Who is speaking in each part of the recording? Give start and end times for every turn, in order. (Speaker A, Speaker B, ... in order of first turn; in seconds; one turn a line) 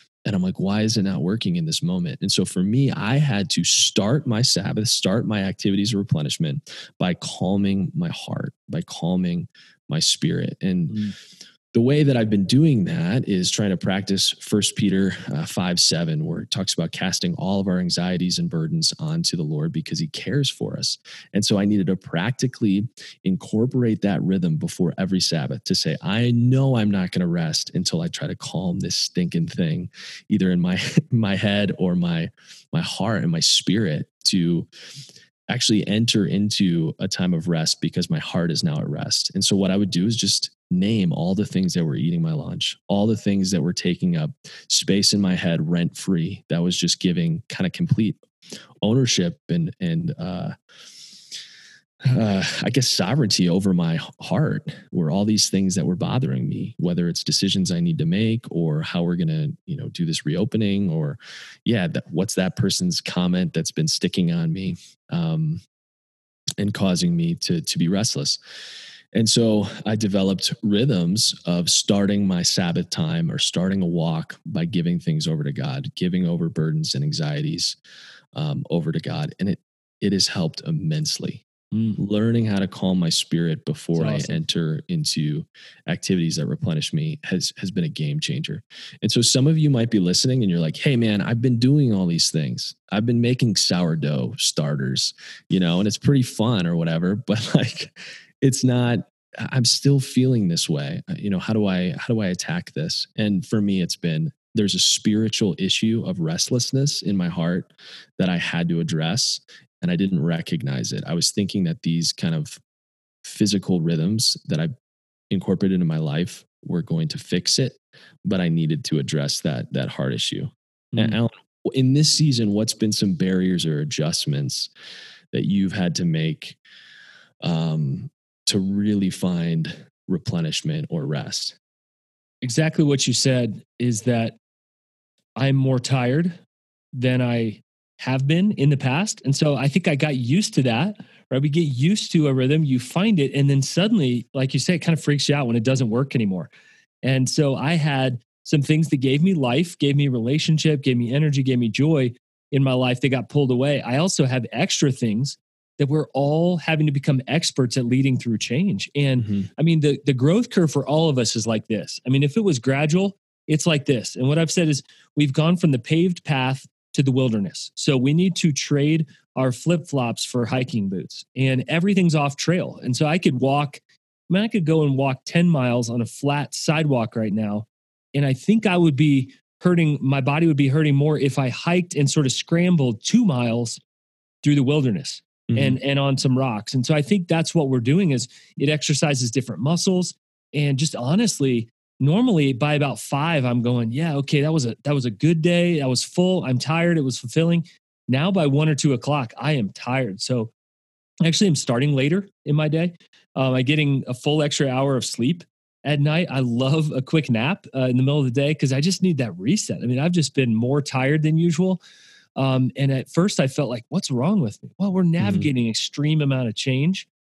Speaker A: 0.2-11.0
Speaker B: 10.9-11.2
Speaker A: 11.7-34.7
Speaker A: 35.5-48.2
Speaker A: 48.8-50.5
Speaker A: 52.0-65.6
Speaker A: 66.6-68.4
Speaker A: 69.1-77.8
Speaker A: 78.3-81.4
Speaker B: 81.7-82.0
Speaker A: 82.0-112.6
Speaker B: 84.0-84.4
Speaker A: 113.2-114.7
Speaker A: 115.3-124.7
Speaker B: 120.9-121.2
Speaker A: 125.3-126.6
Speaker A: 127.4-131.6
Speaker B: 132.4-134.4
Speaker B: 135.4-136.4
Speaker B: 136.9-146.5
Speaker B: 147.0-183.8
Speaker A: 159.2-159.5
Speaker B: 184.4-200.5
Speaker A: 185.5-185.8
Speaker B: 201.2-211.8
Speaker B: 212.4-217.1
Speaker A: 215.2-215.5